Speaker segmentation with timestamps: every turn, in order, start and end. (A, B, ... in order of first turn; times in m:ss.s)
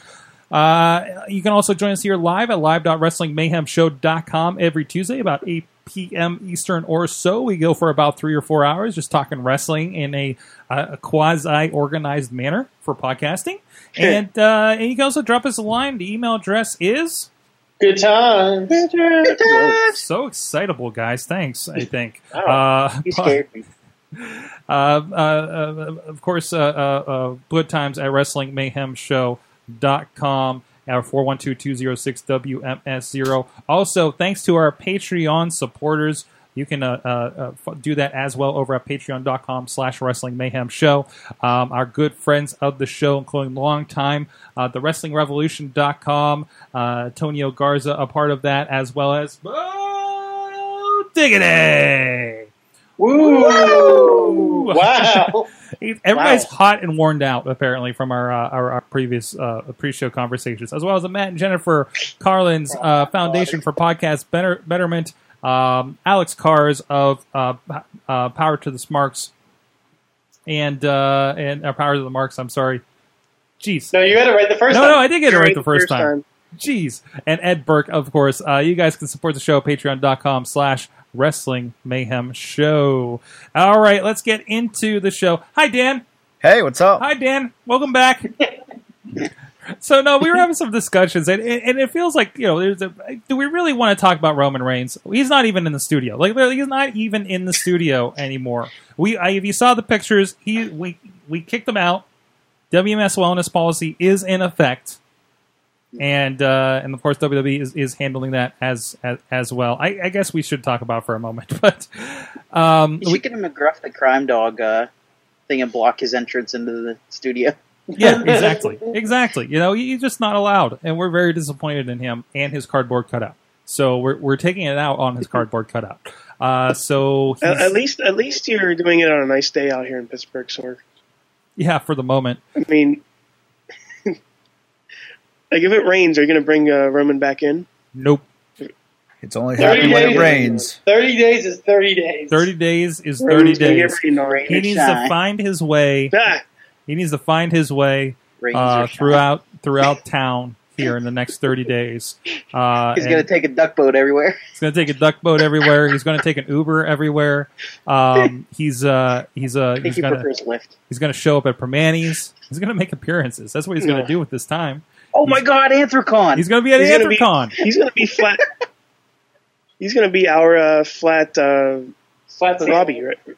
0:00.5-0:17.3 A
0:17.8-0:18.8 B
0:18.7-0:20.0 C
0:19.3-0:19.9 D
0:19.9-0:23.4 A
0:23.1-0:23.7 C
0:24.2-0:52.5 A
0:53.0-0:55.5 B
0:53.2-1:09.3 A
0:56.2-0:56.4 D
1:02.7-1:03.6 B
1:10.5-1:12.8 A
1:13.6-1:14.2 A
1:13.9-1:15.0 B
1:14.7-1:26.0 A
1:15.2-1:16.2 D
1:26.4-1:27.1 E
1:27.0-1:28.3 A
1:29.8-1:42.0 A
1:42.7-1:45.0 A
1:46.0-1:53.2 A
1:53.0-1:54.9 C
1:55.5-1:57.6 C
1:57.9-1:58.7 B
1:58.0-2:07.8 A
2:07.4-2:10.8 D
2:11.6-2:12.4 A
2:12.6-2:13.0 D
2:15.5-2:17.7 D
2:18.0-2:18.2 A
2:19.2-2:20.8 E
2:19.6-2:20.7 D
2:19.6-2:22.5 B
2:22.3-2:26.2 A
2:23.2-2:24.7 D
2:24.1-2:25.1 C
2:26.1-2:26.4 D
2:26.9-2:33.3 A
2:28.4-2:29.2 C
2:33.0-2:34.4 C
2:34.6-2:40.3 A
2:39.8-2:40.7 C
2:40.9-2:45.4 A
2:43.8-2:44.1 D
2:45.1-2:46.4 C
2:46.4-2:47.6 A
2:46.8-2:48.4 D
2:49.8-2:51.9 D
2:52.3-2:53.0 B
2:52.6-2:53.2 D